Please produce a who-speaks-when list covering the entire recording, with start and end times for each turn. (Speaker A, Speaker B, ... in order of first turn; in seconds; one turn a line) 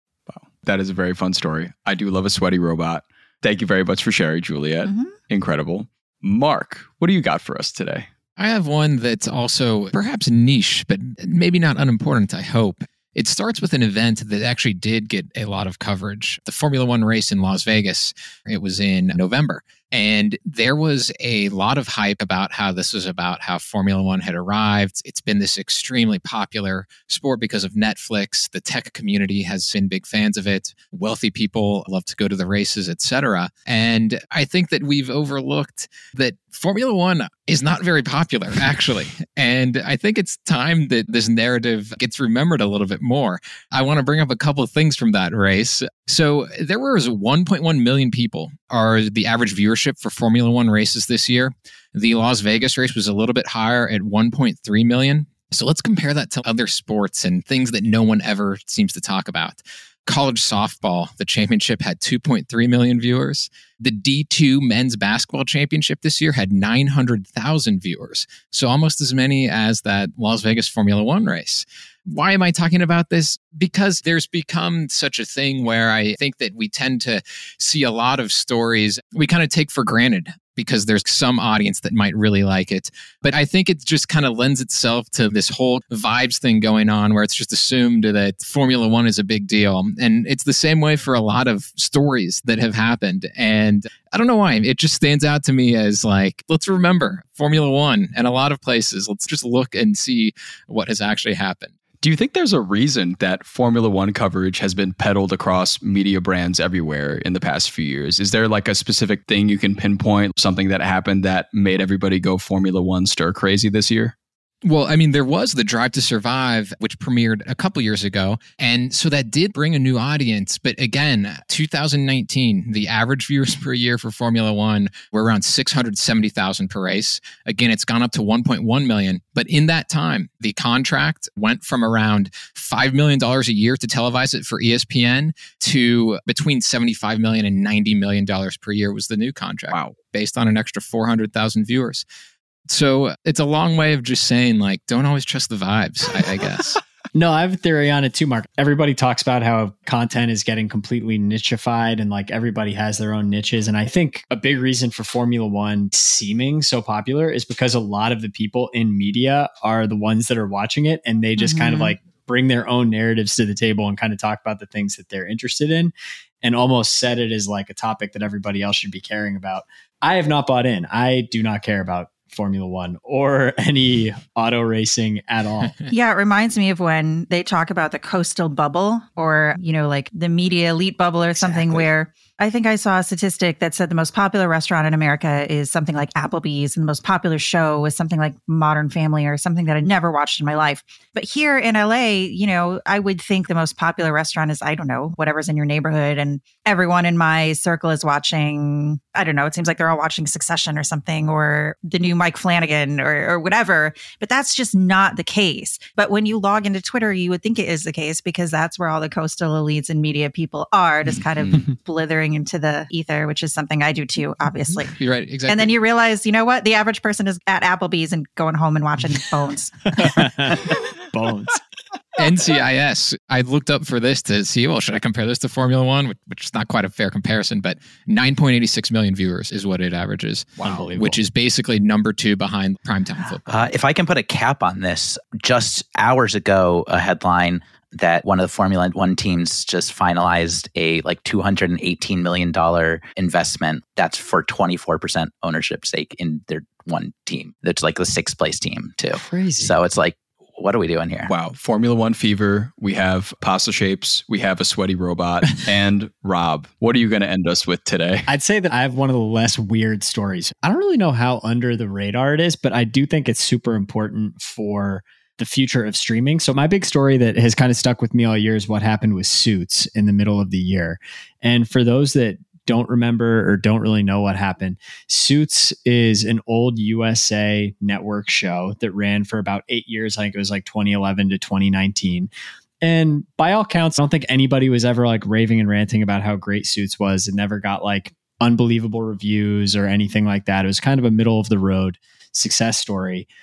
Speaker A: 0.3-8.1
Speaker B: 4.8-5.1
Speaker C: 8.4-101.7
Speaker A: 102.0-114.1
Speaker C: 114.6-142.1
Speaker C: 142.7-146.8
Speaker D: 147.2-175.8
Speaker B: 161.4-161.9
Speaker B: 175.9-214.9
Speaker D: 181.4-181.8
Speaker C: 214.9-215.7
Speaker B: 215.5-220.2
Speaker D: 220.0-221.6
Speaker C: 222.2-233.4
Speaker D: 230.6-231.2
Speaker E: 233.4-251.3
Speaker D: 249.1-249.7
Speaker A: 251.3-258.3
Speaker D: 258.3-282.3
Speaker D: 282.8-293.3